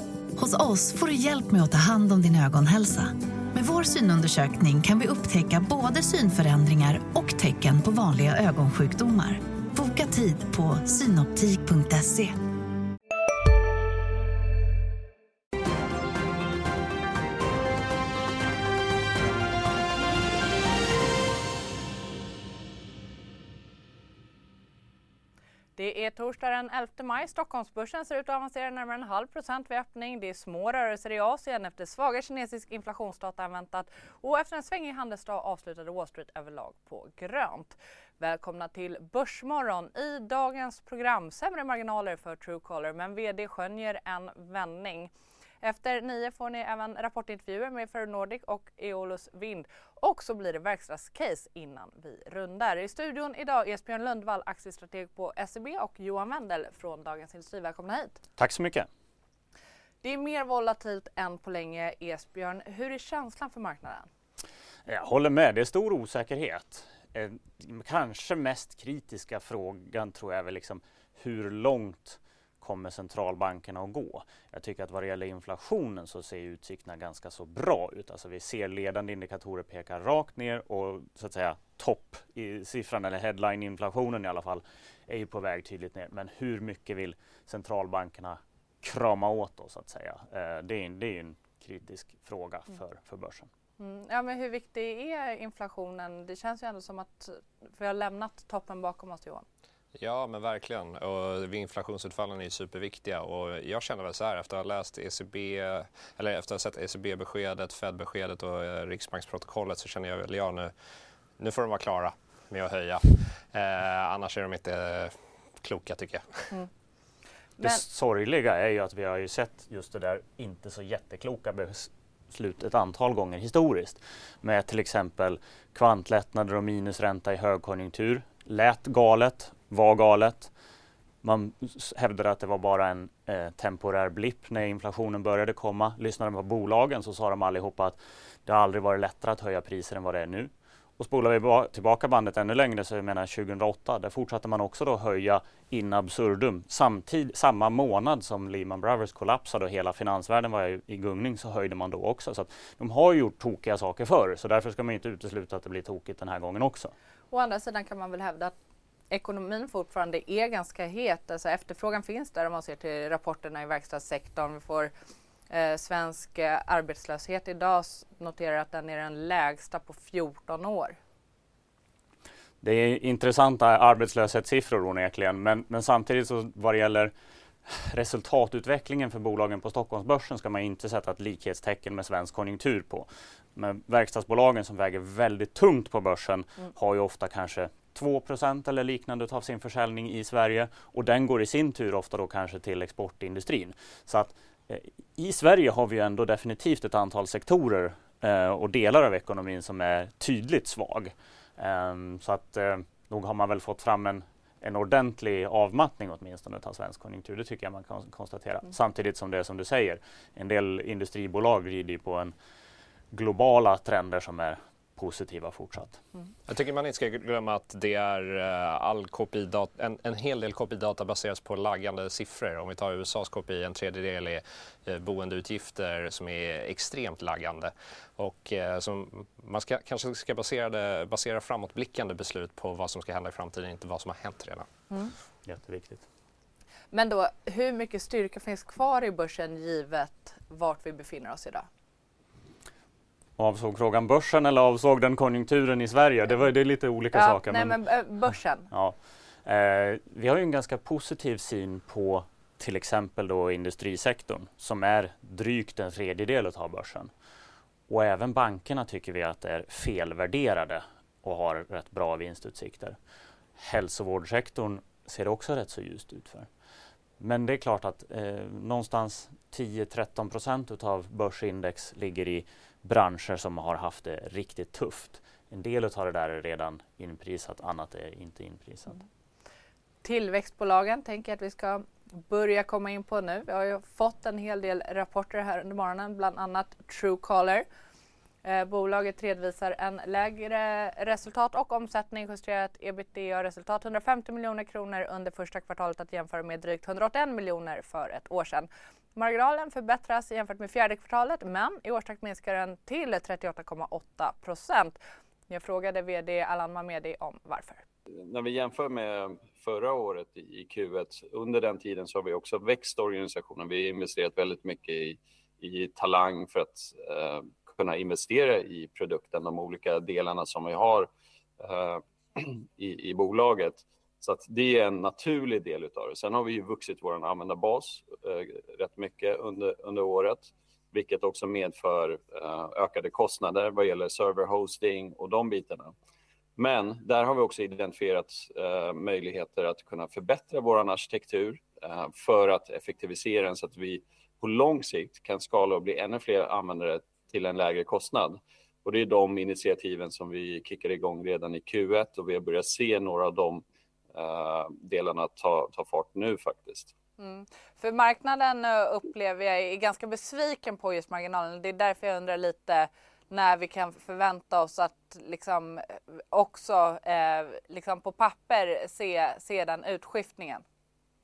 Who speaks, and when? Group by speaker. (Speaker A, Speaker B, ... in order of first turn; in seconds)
Speaker A: 0.4-12.4
Speaker B: 25.8-45.1, 45.6-58.2, 60.0-64.1, 93.8-99.4, 157.3-158.5, 159.1-164.9, 165.5-171.0, 236.9-241.7, 247.1-248.7, 280.0-287.6, 288.4-307.8, 357.2-370.6
Speaker C: 58.4-58.9, 64.8-93.5, 117.6-130.5, 131.2-156.9, 172.6-177.1, 177.7-212.3, 213.1-216.0, 235.4-236.1, 243.4-247.8, 248.7-257.1, 257.9-263.0, 263.6-266.5, 267.2-279.0
Speaker D: 99.9-110.7, 111.4-116.5, 216.5-234.7
Speaker E: 308.1-335.9, 336.6-356.9